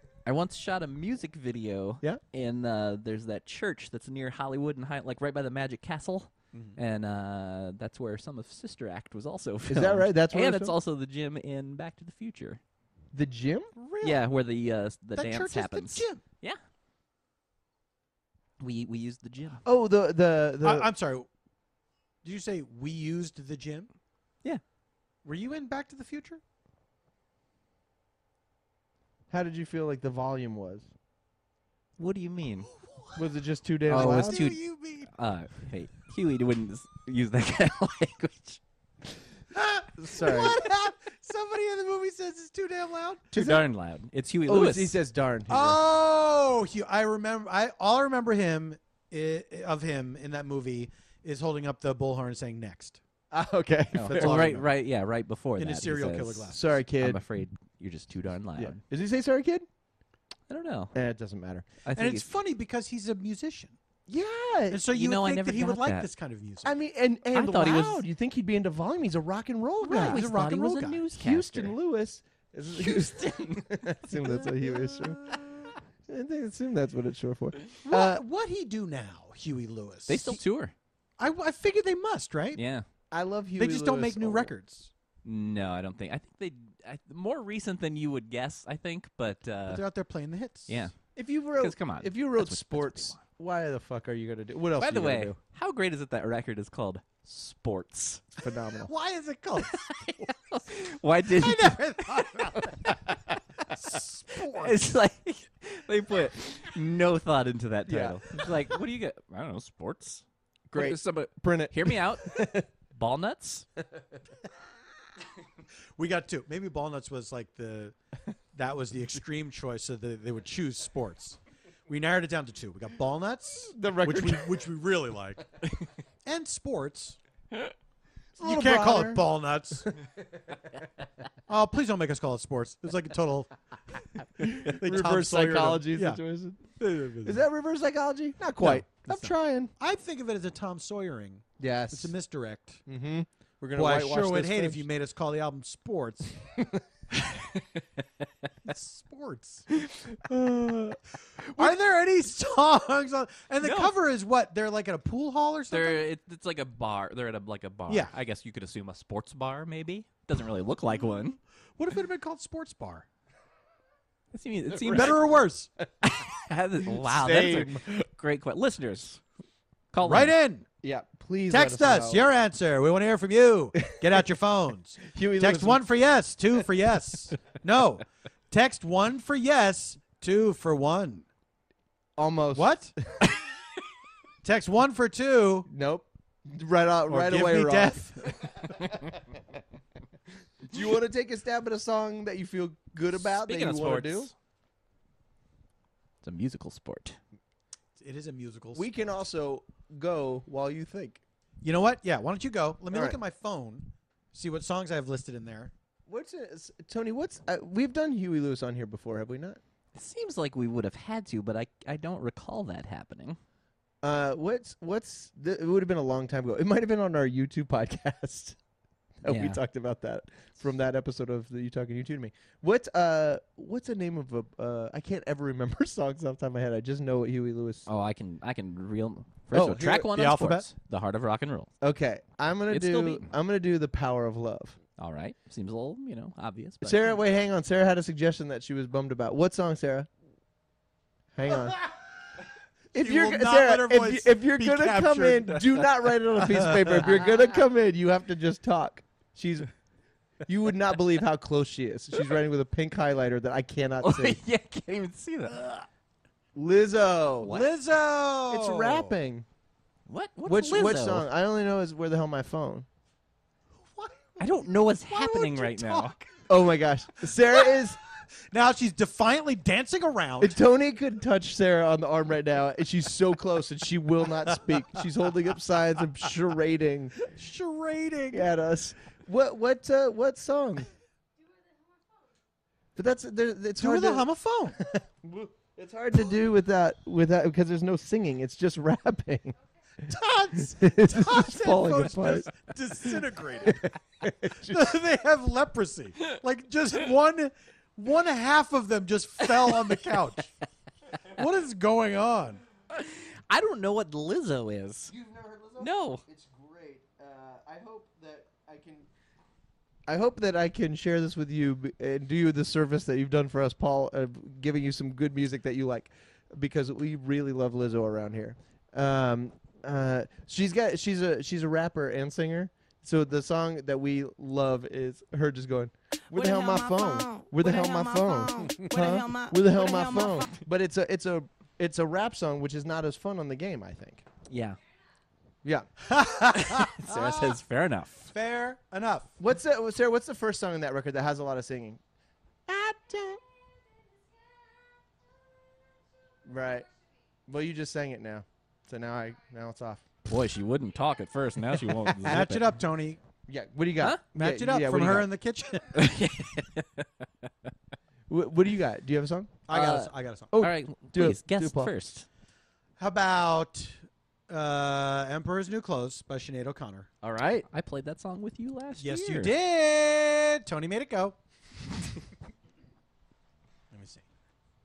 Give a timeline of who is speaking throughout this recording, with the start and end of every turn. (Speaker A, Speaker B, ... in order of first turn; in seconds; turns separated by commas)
Speaker A: 0.2-12.6, Speaker B: 6.5-6.8, Speaker C: 9.7-10.8, Speaker C: 13.1-13.7, Speaker B: 13.8-14.2, Speaker A: 14.0-16.6, Speaker B: 15.2-16.2, Speaker A: 18.6-19.6, Speaker C: 19.6-20.9, Speaker B: 20.6-21.3, Speaker B: 22.2-23.9, Speaker B: 25.2-26.4, Speaker C: 29.3-30.9, Speaker A: 32.0-32.7, Speaker B: 32.8-33.2, Speaker C: 33.1-34.5, Speaker A: 33.9-38.6, Speaker B: 33.9-35.1, Speaker B: 39.5-43.4, Speaker C: 40.0-40.6, Speaker C: 43.3-43.6, Speaker A: 43.3-45.0, Speaker C: 44.5-45.8, Speaker B: 45.5-53.0, Speaker C: 53.3-54.5, Speaker A: 53.9-58.8, Speaker B: 54.0-54.7, Speaker B: 55.6-56.7, Speaker C: 56.5-57.2, Speaker C: 58.6-59.7, Speaker A: 60.5-60.9, Speaker C: 60.9-61.7, Speaker A: 61.9-62.3, Speaker B: 61.9-63.8, Speaker C: 64.1-64.8, Speaker B: 64.7-66.8, Speaker A: 64.9-66.1, Speaker C: 66.6-70.2, Speaker A: 67.3-68.0, Speaker B: 69.8-71.0, Speaker A: 69.8-71.8, Speaker C: 71.1-75.2, Speaker A: 72.8-74.2, Speaker C: 76.1-78.2, Speaker B: 77.8-80.4, Speaker A: 80.1-80.7, Speaker B: 81.2-82.6, Speaker A: 82.5-82.8, Speaker C: 83.1-84.5, Speaker B: 83.6-84.9, Speaker A: 85.2-89.8, Speaker B: 89.7-90.8, Speaker A: 90.7-91.0, Speaker C: 91.2-95.4, Speaker A: 91.6-93.2, Speaker A: 94.8-98.3, Speaker C: 98.4-98.9, Speaker B: 98.9-100.3, Speaker A: 99.7-103.4, Speaker B: 101.3-102.9, Speaker B: 103.7-104.9, Speaker A: 104.5-112.4, Speaker C: 107.9-108.2, Speaker C: 110.7-112.7, Speaker A: 112.9-113.7, Speaker B: 116.0-118.0, Speaker B: 118.5-125.5, Speaker C: 123.7-124.7, Speaker B: 126.2-127.2, Speaker C: 128.4-129.2, Speaker B: 128.4-129.9, Speaker B: 131.5-133.5, Speaker B: 134.4-136.2, Speaker C: 134.4-139.7, Speaker B: 136.8-137.4, Speaker B: 138.6-142.8, Speaker C: 141.6-142.1, Speaker C: 142.9-144.9, Speaker B: 143.8-146.4, Speaker B: 148.6-149.7, Speaker C: 149.8-151.8, Speaker B: 151.6-156.1, Speaker A: 153.6-153.9, Speaker A: 155.7-161.4, Speaker B: 157.9-158.1, Speaker B: 161.8-163.1, Speaker A: 164.3-165.2, Speaker C: 164.8-165.2, Speaker B: 164.8-165.7, Speaker A: 166.0-169.2, Speaker C: 166.8-167.9, Speaker A: 169.9-170.3, Speaker B: 170.0-170.7, Speaker C: 170.8-172.2, Speaker B: 171.5-181.2, Speaker C: 175.0-175.8, Speaker C: 182.2-183.3, Speaker B: 182.5-182.9, Speaker B: 184.4-185.7, Speaker C: 185.7-189.1, Speaker B: 187.1-188.7, Speaker C: 190.7-194.3, Speaker A: 193.2-194.3, Speaker A: 196.2-197.2, Speaker B: 198.0-198.9, Speaker C: 198.8-201.2, Speaker B: 201.6-205.7, Speaker C: 202.9-203.2, Speaker C: 206.1-209.6, Speaker A: 209.9-213.4, Speaker C: 214.0-218.6, Speaker C: 219.2-227.9, Speaker A: 219.3-219.6, Speaker A: 227.9-231.7, Speaker C: 229.5-230.1, Speaker B: 229.9-230.7, Speaker C: 231.8-234.8, Speaker A: 232.7-233.3, Speaker A: 235.0-237.2, Speaker C: 236.8-240.1, Speaker C: 241.3-241.8, Speaker B: 242.9-247.1, Speaker C: 242.9-249.7, Speaker C: 250.5-254.4, Speaker A: 254.0-255.9, Speaker C: 256.6-257.7, Speaker B: 257.4-259.1, Speaker C: 258.5-259.5, Speaker A: 260.1-261.3, Speaker C: 260.4-262.9, Speaker B: 260.7-261.0, Speaker B: 263.8-266.4, Speaker A: 264.4-266.2, Speaker C: 266.5-268.0, Speaker B: 267.3-267.8, Speaker B: 268.5-270.6, Speaker C: 270.4-277.2, Speaker B: 277.3-278.5, Speaker C: 278.3-280.9, Speaker C: 283.0-289.6, Speaker B: 283.8-284.8, Speaker B: 290.0-293.8, Speaker C: 290.6-292.5, Speaker C: 293.0-295.0, Speaker B: 294.5-300.5, Speaker B: 301.3-302.6, Speaker A: 302.9-305.1, Speaker C: 305.1-309.1, Speaker A: 305.8-306.2, Speaker C: 310.1-334.2, Speaker A: 334.5-334.8, Speaker C: 335.6-336.0, Speaker B: 336.0-337.0, Speaker A: 336.5-338.3, Speaker B: 338.2-339.4, Speaker C: 339.4-342.0, Speaker C: 342.7-343.4, Speaker C: 346.4-346.9, Speaker C: 347.5-350.0, Speaker A: 350.3-352.7, Speaker C: 352.1-352.4, Speaker B: 352.2-353.2, Speaker C: 353.5-355.3, Speaker B: 354.4-355.9, Speaker A: 355.9-357.5, Speaker C: 358.3-359.6, Speaker B: 359.7-360.6, Speaker A: 359.7-362.3, Speaker C: 360.5-361.9, Speaker B: 363.0-364.0, Speaker B: 364.5-367.1, Speaker A: 367.2-369.6, Speaker B: 369.0-371.4, Speaker B: 373.9-374.2